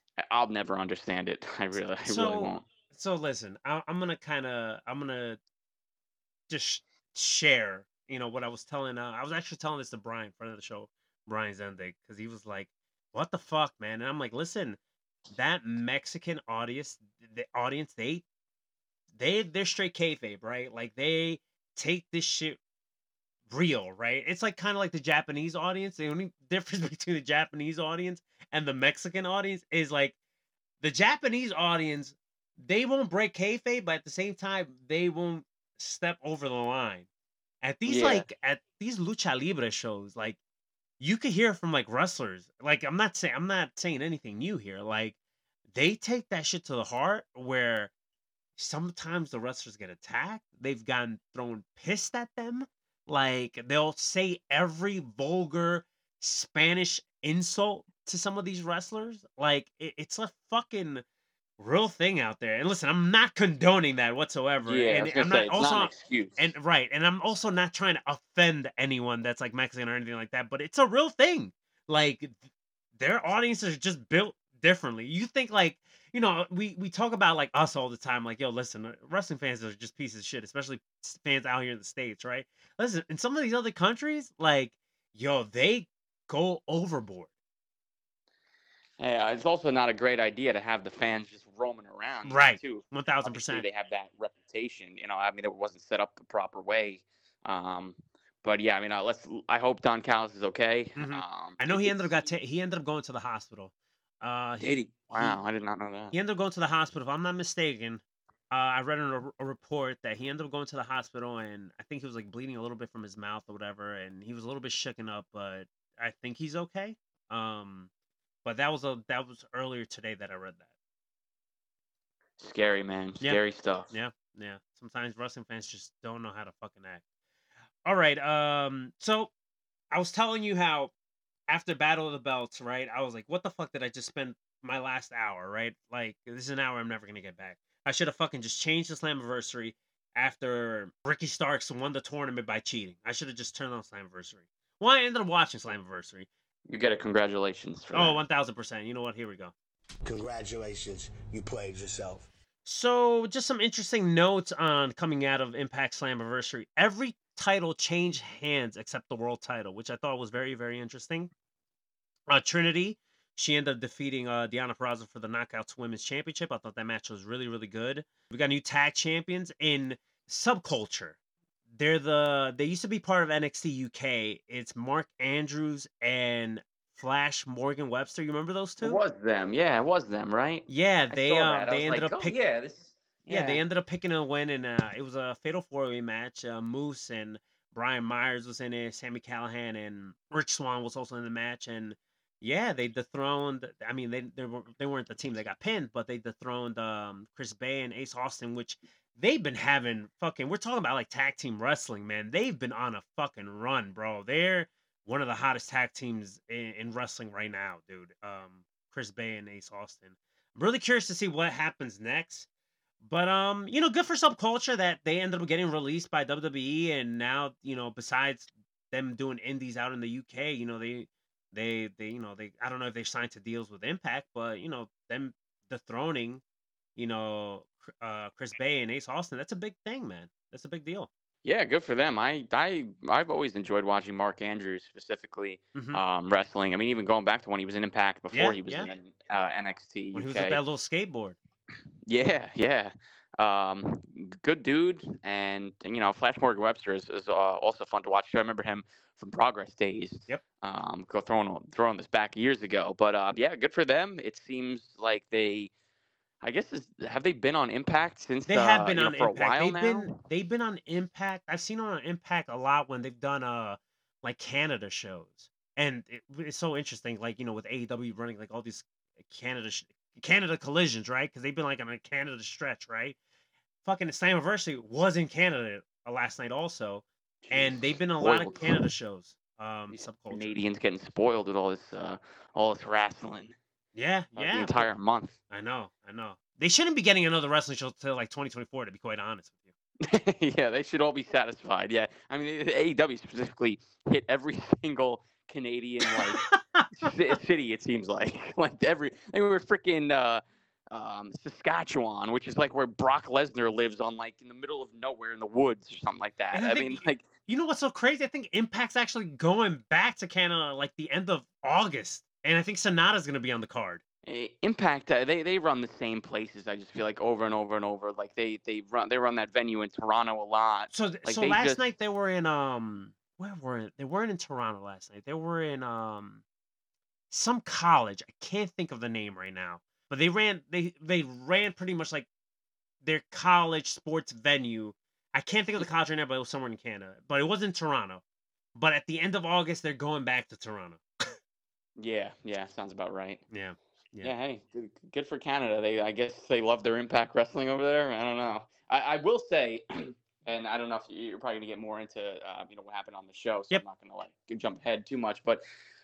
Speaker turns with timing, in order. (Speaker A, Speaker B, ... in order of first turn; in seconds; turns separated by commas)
Speaker A: 0.3-2.7, Speaker B: 2.0-5.4, Speaker B: 6.5-14.8, Speaker B: 15.3-18.2, Speaker B: 19.2-22.6, Speaker B: 23.5-30.1, Speaker B: 30.8-37.1, Speaker B: 37.6-40.4, Speaker A: 37.9-38.3, Speaker B: 41.0-45.1, Speaker B: 45.7-47.9, Speaker B: 48.6-61.0, Speaker B: 61.6-72.3, Speaker A: 64.6-66.5, Speaker B: 73.0-87.3, Speaker A: 89.0-102.1, Speaker B: 92.2-93.6, Speaker B: 101.0-105.4, Speaker A: 104.6-106.1, Speaker B: 106.1-117.9, Speaker B: 118.5-120.7, Speaker A: 122.4-123.9, Speaker B: 123.2-127.0, Speaker B: 127.8-129.3, Speaker B: 129.9-130.9, Speaker B: 131.5-146.3, Speaker A: 146.7-148.2, Speaker B: 147.9-149.5, Speaker C: 150.1-152.3, Speaker B: 152.7-161.3, Speaker B: 162.3-171.2, Speaker B: 171.7-179.0, Speaker A: 178.8-183.6, Speaker B: 180.7-182.4, Speaker B: 183.3-212.5, Speaker B: 213.0-226.4, Speaker B: 226.9-231.1, Speaker A: 231.4-240.6, Speaker B: 235.7-236.0, Speaker B: 238.3-238.9, Speaker B: 240.1-241.4, Speaker A: 242.1-255.7, Speaker A: 256.4-260.2, Speaker B: 258.5-273.2, Speaker B: 273.8-280.5, Speaker A: 277.5-278.8, Speaker A: 279.9-283.6, Speaker B: 283.9-284.9, Speaker A: 284.4-285.3, Speaker B: 285.5-289.7, Speaker A: 290.1-307.2, Speaker B: 296.1-296.9, Speaker B: 306.5-314.0, Speaker A: 314.3-321.9, Speaker B: 320.9-326.4, Speaker B: 327.3-332.3, Speaker B: 333.0-338.2, Speaker B: 338.8-341.3, Speaker A: 342.0-343.4, Speaker B: 343.5-344.3, Speaker A: 344.2-355.6